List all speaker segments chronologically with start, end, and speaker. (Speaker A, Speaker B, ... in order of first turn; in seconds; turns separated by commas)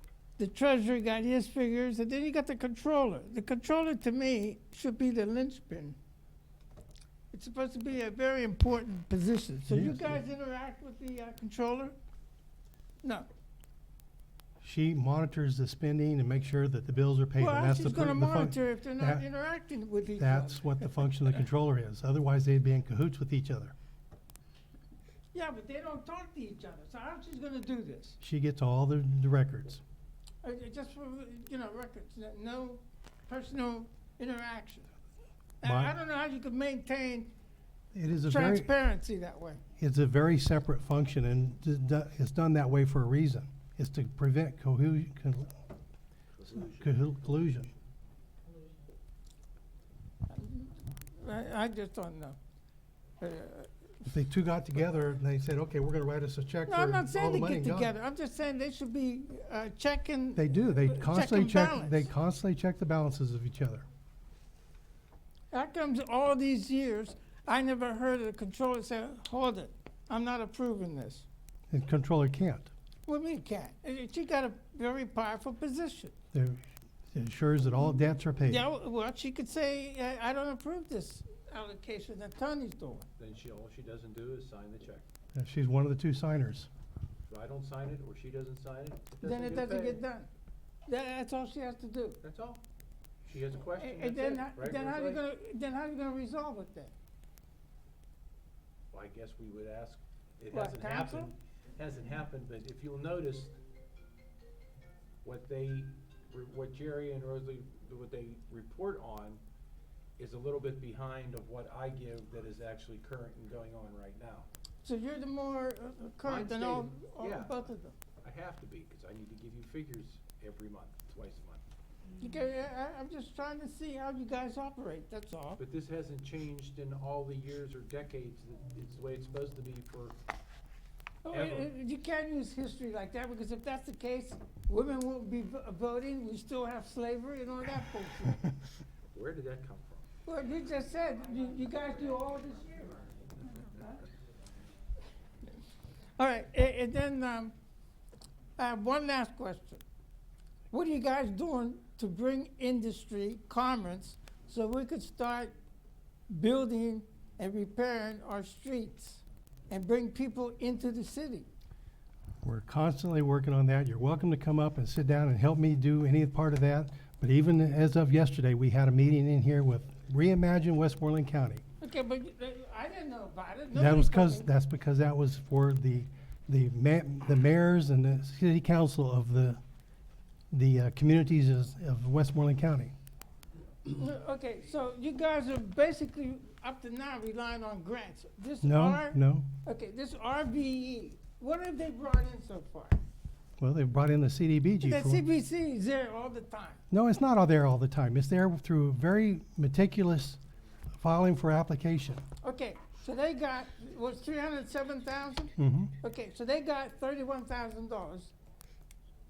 Speaker A: 0.4-6.0, Speaker A: 7.3-11.9, Speaker B: 9.7-10.2, Speaker B: 14.6-19.2, Speaker A: 17.4-21.2, Speaker B: 20.2-23.7, Speaker A: 25.3-28.2, Speaker B: 28.2-29.8, Speaker A: 30.4-34.9, Speaker A: 35.6-37.3, Speaker B: 35.6-35.9, Speaker B: 37.9-38.7, Speaker A: 38.3-39.6, Speaker B: 39.8-45.6, Speaker C: 46.3-46.9, Speaker B: 46.5-47.7, Speaker A: 50.3-52.4, Speaker A: 53.2-53.7, Speaker B: 54.1-57.9, Speaker A: 56.7-62.1, Speaker B: 60.4-63.9, Speaker A: 65.5-71.3, Speaker B: 71.7-72.7, Speaker A: 73.1-76.1, Speaker B: 76.3-76.6, Speaker B: 77.1-78.6, Speaker A: 78.4-83.1, Speaker C: 83.2-85.0, Speaker B: 85.3-86.7, Speaker C: 87.3-90.0, Speaker A: 89.2-90.3, Speaker A: 90.9-92.2, Speaker C: 92.2-92.6, Speaker C: 93.2-95.2, Speaker A: 93.7-96.9, Speaker C: 98.9-103.6, Speaker A: 100.5-101.3, Speaker C: 105.2-109.4, Speaker C: 110.2-114.5, Speaker A: 114.8-118.0, Speaker C: 116.2-117.7, Speaker C: 118.2-121.6, Speaker A: 122.2-125.6, Speaker C: 125.6-130.2, Speaker A: 131.2-138.4, Speaker C: 131.3-131.7, Speaker B: 138.2-138.5, Speaker C: 139.1-140.1, Speaker A: 140.2-143.1, Speaker A: 143.6-144.0, Speaker A: 146.2-147.5, Speaker A: 148.6-149.8, Speaker A: 150.7-155.5, Speaker A: 156.3-161.5, Speaker B: 162.4-171.6, Speaker A: 171.8-174.5, Speaker B: 173.7-179.6, Speaker B: 180.5-182.9, Speaker A: 183.8-193.0, Speaker B: 188.6-189.5, Speaker B: 193.6-195.2, Speaker A: 194.8-196.8, Speaker B: 196.9-200.4, Speaker B: 201.0-202.2, Speaker A: 202.4-208.3, Speaker B: 205.6-205.9